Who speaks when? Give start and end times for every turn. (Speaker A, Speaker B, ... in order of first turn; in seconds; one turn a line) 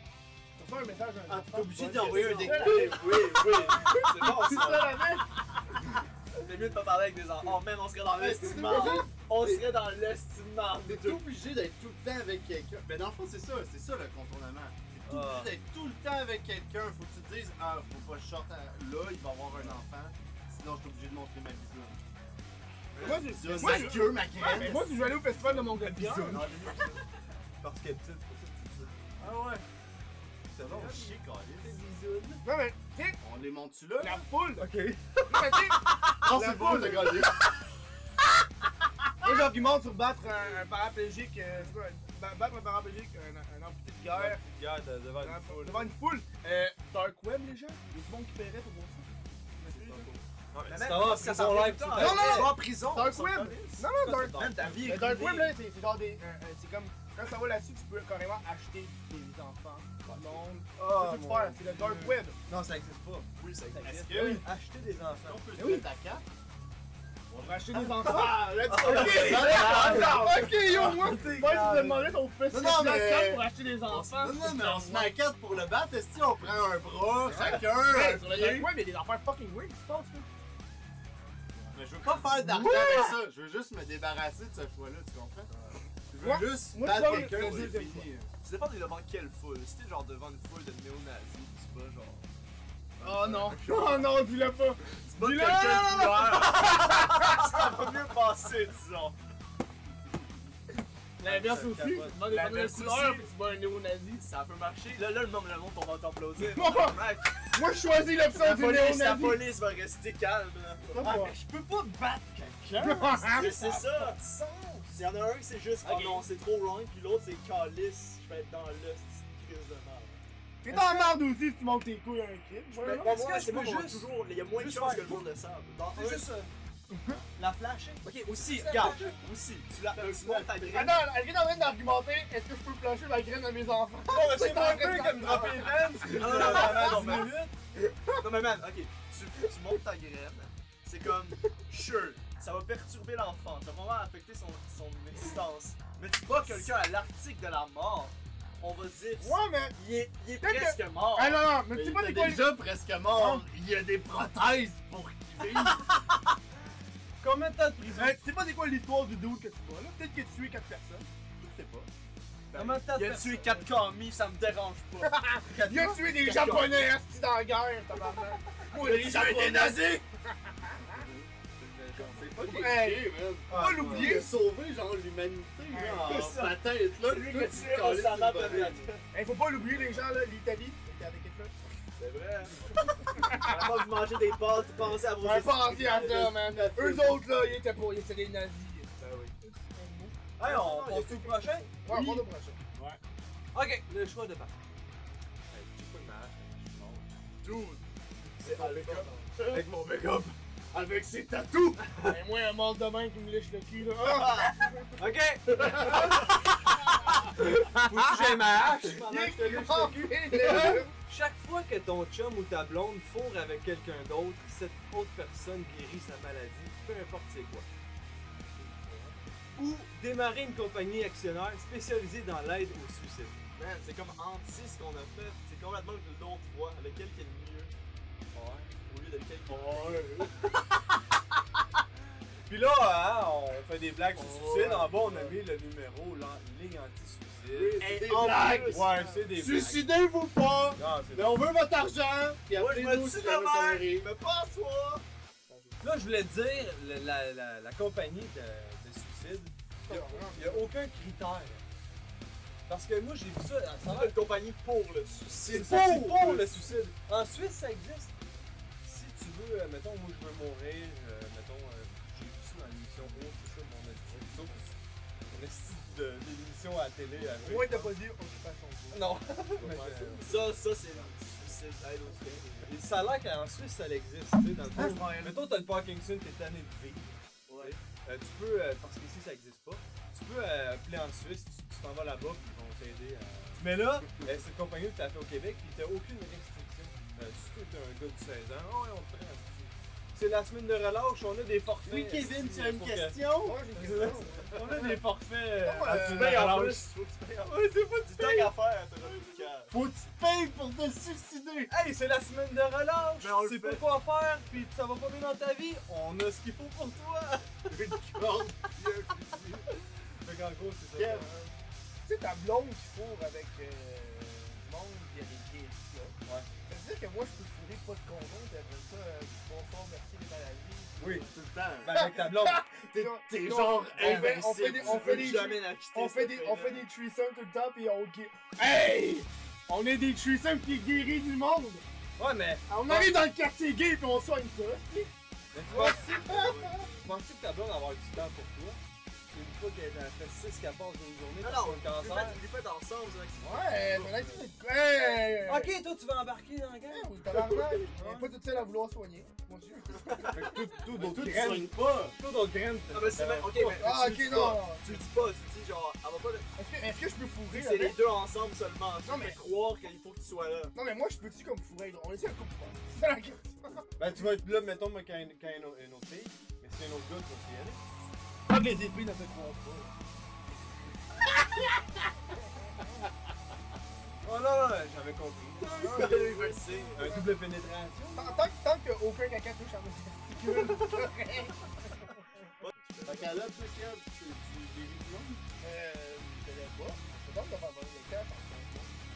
Speaker A: 0.6-5.3
Speaker B: 1.3-3.6
Speaker C: 1.7-5.2
Speaker C: 6.4-11.2
Speaker B: 8.1-9.6
Speaker A: 8.5-9.1
Speaker B: 10.8-22.0
Speaker D: 15.1-15.5
Speaker C: 22.9-24.0
Speaker A: 23.0-26.5
Speaker B: 23.0-25.0
Speaker D: 25.4-26.8
Speaker C: 26.3-27.0
Speaker B: 26.4-26.9
Speaker D: 27.6-29.6
Speaker D: 30.5-32.4
Speaker B: 30.6-31.8
Speaker A: 32.4-33.2
Speaker B: 33.2-34.2
Speaker A: 34.0-34.7
Speaker D: 34.6-35.9
Speaker A: 35.3-37.2
Speaker B: 36.1-37.4
Speaker A: 39.2-44.4
Speaker D: 44.1-45.9
Speaker A: 45.2-49.1
Speaker A: 49.6-50.1
Speaker C: 49.6-55.6
Speaker D: 50.5-52.6
Speaker A: 51.9-62.4
Speaker D: 53.9-54.9
Speaker C: 60.1-60.4
Speaker D: 60.8-63.3
Speaker C: 63.4-64.2
Speaker B: 63.8-64.5
Speaker D: 64.1-65.8
Speaker B: 65.2-66.2
Speaker A: 67.3-75.1
Speaker B: 67.4-70.8
Speaker C: 68.6-70.3
Speaker D: 68.9-72.2
Speaker B: 72.5-78.7
Speaker A: 77.3-80.3
Speaker B: 81.7-85.5
Speaker D: 82.0-83.0
Speaker A: 82.4-83.1
Speaker B: 86.1-88.3
Speaker A: 86.2-88.1
Speaker D: 86.9-87.7
Speaker C: 87.1-87.6
Speaker C: 88.4-92.3
Speaker A: 93.0-97.8
Speaker C: 93.0-94.2
Speaker C: 95.0-99.2
Speaker D: 101.2-102.8
Speaker A: 101.2-104.2
Speaker C: 102.3-103.2
Speaker C: 104.2-107.5
Speaker A: 106.4-109.4
Speaker C: 108.3-111.2
Speaker B: 110.9-111.3
Speaker D: 111.0-115.0
Speaker A: 112.8-113.5
Speaker C: 113.3-114.3
Speaker C: 114.9-120.2
Speaker D: 115.8-116.2
Speaker A: 120.6-123.1
Speaker D: 120.7-121.2
Speaker C: 122.8-126.3
Speaker D: 122.8-125.3
Speaker D: 125.9-126.5
Speaker A: 126.9-127.2
Speaker D: 127.3-129.2
Speaker C: 128.0-131.1
Speaker B: 130.0-130.7
Speaker A: 130.7-138.2
Speaker D: 134.1-137.5
Speaker C: 136.0-137.4
Speaker C: 138.2-151.5
Speaker A: 149.2-149.8
Speaker A: 150.4-152.6
Speaker B: 151.7-156.0
Speaker A: 153.1-153.4
Speaker D: 157.2-158.2
Speaker A: 157.8-161.1
Speaker B: 161.4-161.9
Speaker C: 162.5-166.9
Speaker D: 162.5-163.6
Speaker A: 165.0-171.0
Speaker C: 168.7-170.0
Speaker B: 170.8-171.3
Speaker C: 171.6-172.3
Speaker B: 172.0-178.9
Speaker A: 172.4-174.3
Speaker D: 173.5-174.2
Speaker A: 175.7-176.3
Speaker C: 176.0-179.0
Speaker A: 179.1-181.5
Speaker C: 182.0-182.6
Speaker A: 182.8-183.7
Speaker C: 183.3-186.3
Speaker A: 185.2-189.0
Speaker B: 185.9-187.2
Speaker C: 189.0-189.3
Speaker A: 189.6-190.1
Speaker D: 190.4-192.2
Speaker C: 190.4-191.7
Speaker A: 191.8-192.7
Speaker D: 193.5-194.6
Speaker D: 195.4-197.1
Speaker C: 197.4-197.8
Speaker C: 198.4-199.4
Speaker D: 198.5-200.3
Speaker A: 200.7-204.9
Speaker C: 204.0-204.6
Speaker D: 205.0-206.2
Speaker C: 205.5-206.3
Speaker A: 205.6-206.2
Speaker D: 207.3-217.7
Speaker A: 207.8-210.9
Speaker D: 219.5-223.4
Speaker C: 223.6-227.7
Speaker D: 228.3-228.7
Speaker C: 228.9-230.3
Speaker B: 229.5-230.3
Speaker D: 232.5-237.8
Speaker C: 234.1-235.2
Speaker B: 234.6-235.0
Speaker B: 237.5-244.1
Speaker C: 237.8-239.2
Speaker D: 238.7-239.9
Speaker D: 240.8-241.5
Speaker C: 242.5-245.0
Speaker A: 245.5-245.8
Speaker D: 245.8-251.6
Speaker A: 249.9-250.7
Speaker D: 252.7-254.2
Speaker C: 253.8-256.5
Speaker D: 255.4-258.1
Speaker B: 255.5-256.4
Speaker D: 258.8-264.7
Speaker D: 265.3-268.0
Speaker A: 267.4-269.2
Speaker D: 268.9-270.4
Speaker B: 269.6-270.5
Speaker C: 270.2-272.7
Speaker D: 272.6-296.9
Speaker B: 274.7-275.3
Speaker C: 274.7-275.2
Speaker B: 291.8-293.6
Speaker A: 293.4-294.9
Speaker A: 295.6-296.5
Speaker C: 295.9-299.7
Speaker D: 297.5-298.5
Speaker D: 299.0-299.4
Speaker B: 299.7-301.7
Speaker D: 301.7-307.8
Speaker C: 303.2-303.9
Speaker B: 307.9-308.7
Speaker D: 310.2-311.3
Speaker B: 310.9-311.5
Speaker A: 312.1-316.1
Speaker A: 316.7-321.3
Speaker D: 321.0-321.3
Speaker B: 321.2-322.1
Speaker D: 321.8-322.6
Speaker A: 321.9-331.8
Speaker B: 322.9-325.4
Speaker C: 324.0-326.9
Speaker D: 332.2-333.2
Speaker A: 332.7-335.1
Speaker D: 335.5-338.8
Speaker A: 335.7-336.4
Speaker C: 335.7-336.9
Speaker B: 335.9-336.7
Speaker D: 339.3-342.4
Speaker C: 341.4-344.4
Speaker A: 343.4-345.7
Speaker D: 345.4-348.3
Speaker A: 346.9-350.4
Speaker C: 350.1-350.4
Speaker D: 350.3-354.0
Speaker B: 350.9-352.2
Speaker C: 352.9-356.5
Speaker A: 353.8-354.9
Speaker A: 356.6-358.0
Speaker C: 357.5-360.7
Speaker A: 359.0-359.4
Speaker A: 360.7-363.8
Speaker D: 364.0-367.8
Speaker A: 368.5-369.9
Speaker D: 374.2-376.2
Speaker C: 375.6-377.0
Speaker A: 375.8-377.2
Speaker D: 376.9-378.4
Speaker A: 378.1-381.6
Speaker C: 380.4-381.1
Speaker C: 382.6-383.4
Speaker B: 383.0-385.4
Speaker A: 385.6-388.9